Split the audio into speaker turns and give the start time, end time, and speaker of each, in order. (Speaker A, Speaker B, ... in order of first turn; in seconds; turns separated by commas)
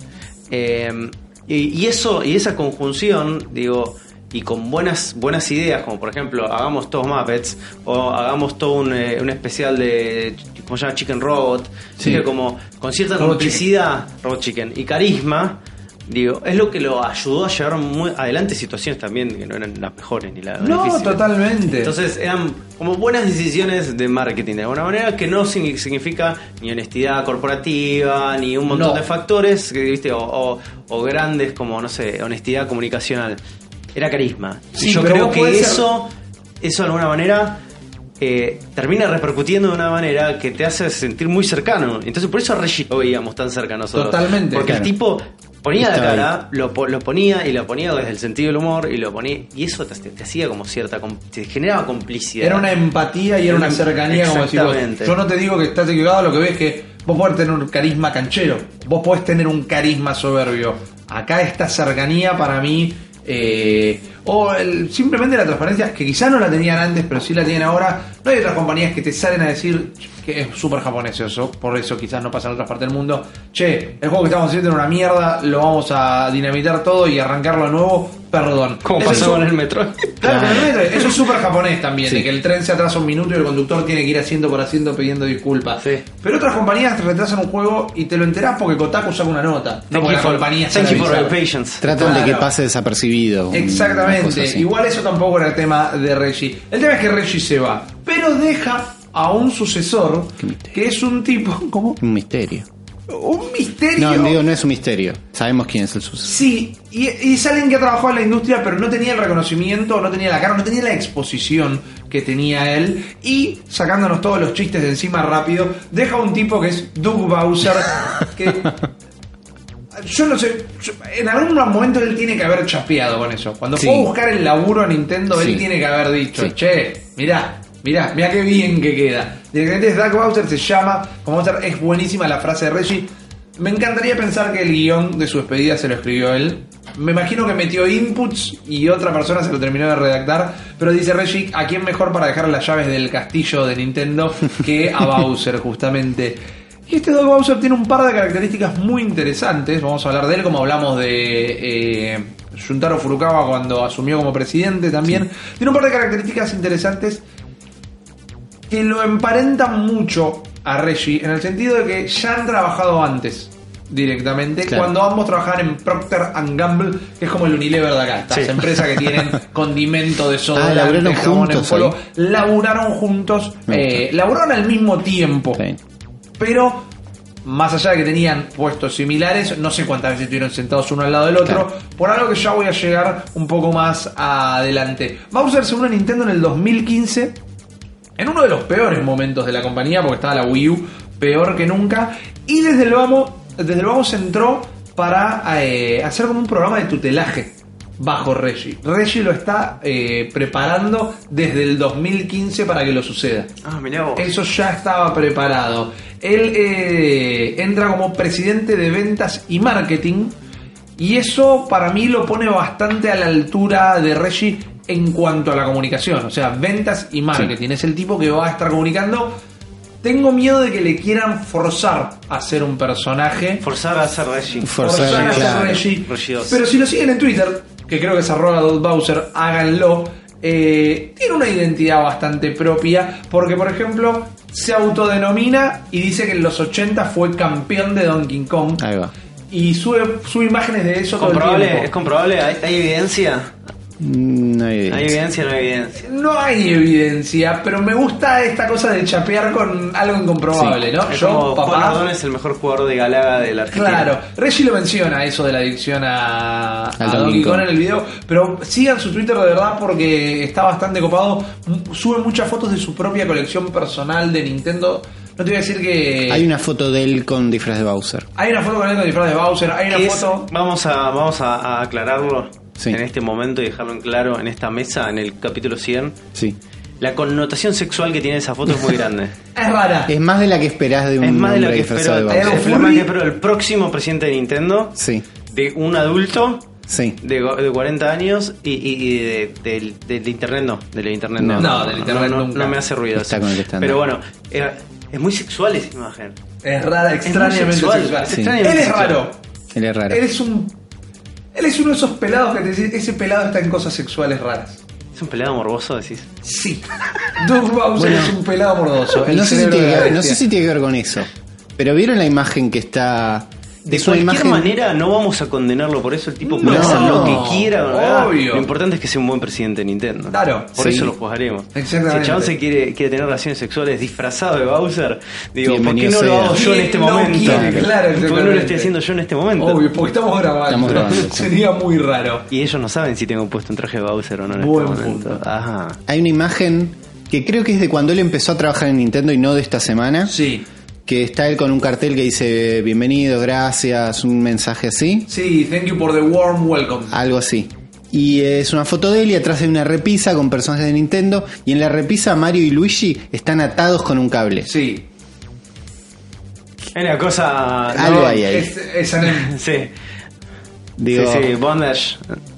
Speaker A: 0.5-33.4, Speaker B: 13.2-13.7, Speaker B: 20.6-21.9, Speaker B: 28.7-29.0, Speaker A: 33.9-36.1, Speaker B: 34.7-35.9, Speaker A: 36.6-37.6, Speaker A: 38.2-52.7, Speaker B: 43.9-44.7, Speaker C: 44.6-44.9, Speaker C: 45.8-46.3, Speaker B: 52.4-79.5, Speaker A: 53.5-55.1, Speaker A: 78.8-80.7, Speaker B: 80.2-91.4, Speaker C: 80.2-80.7, Speaker A: 89.9-92.2, Speaker C: 91.8-94.7, Speaker B: 91.9-92.5, Speaker B: 93.5-102.0, Speaker C: 100.4-100.7, Speaker C: 102.0-102.7, Speaker B: 103.1-104.4, Speaker C: 104.0-106.4, Speaker B: 106.2-118.8, Speaker B: 120.0-157.2, Speaker C: 123.8-124.1, Speaker C: 125.3-125.6, Speaker B: 158.7-175.6, Speaker A: 168.3-168.6, Speaker C: 170.6-172.0, Speaker C: 173.7-174.0, Speaker B: 176.4-176.9, Speaker B: 177.4-187.4, Speaker B: 188.2-203.5, Speaker A: 203.6-204.3, Speaker B: 204.2-210.3, Speaker B: 211.0-219.4, Speaker B: 220.0-223.7, Speaker A: 223.6-226.6, Speaker C: 224.6-225.8, Speaker B: 224.8-238.8, Speaker C: 238.8-239.1, Speaker B: 239.5-241.9, Speaker A: 241.2-243.5, Speaker C: 244.0-245.2, Speaker A: 244.9-246.0, Speaker B: 246.0-252.0, Speaker A: 251.1-254.1, Speaker B: 253.7-266.4, Speaker C: 257.0-257.7, Speaker C: 266.3-268.3, Speaker B: 268.4-270.5, Speaker A: 269.9-276.2, Speaker A: 277.0-279.3, Speaker B: 279.6-280.1, Speaker C: 280.1-282.6, Speaker A: 281.2-285.0, Speaker B: 282.3-283.1, Speaker C: 284.9-285.3, Speaker A: 285.5-286.7, Speaker C: 286.9-287.2, Speaker A: 287.2-296.4, Speaker C: 291.4-291.8, Speaker B: 291.6-292.8, Speaker C: 293.1-294.0, Speaker B: 296.6-299.4, Speaker A: 297.2-299.2, Speaker C: 298.3-298.6, Speaker C: 299.7-300.2, Speaker B: 300.1-300.8, Speaker B: 301.5-304.8, Speaker A: 305.1-306.3, Speaker B: 306.4-310.4, Speaker C: 308.0-308.4, Speaker C: 309.2-314.7, Speaker A: 313.9-329.9, Speaker B: 316.4-318.7, Speaker C: 316.6-317.4, Speaker B: 320.3-320.7, Speaker C: 320.8-321.1, Speaker B: 321.7-322.5, Speaker C: 325.6-326.6, Speaker B: 326.5-328.9, Speaker C: 327.4-327.9, Speaker B: 329.6-332.5, Speaker C: 330.7-331.5, Speaker A: 332.5-336.0, Speaker B: 334.5-335.4, Speaker C: 336.1-340.4, Speaker B: 340.3-340.6, Speaker C: 341.1-345.3, Speaker B: 345.3-347.1, Speaker C: 347.1-354.7, Speaker B: 354.6-355.1, Speaker A: 356.9-358.4, Speaker C: 357.9-358.7, Speaker B: 357.9-359.6, Speaker A: 359.3-359.9, Speaker C: 361.0-361.5, Speaker A: 361.1-362.4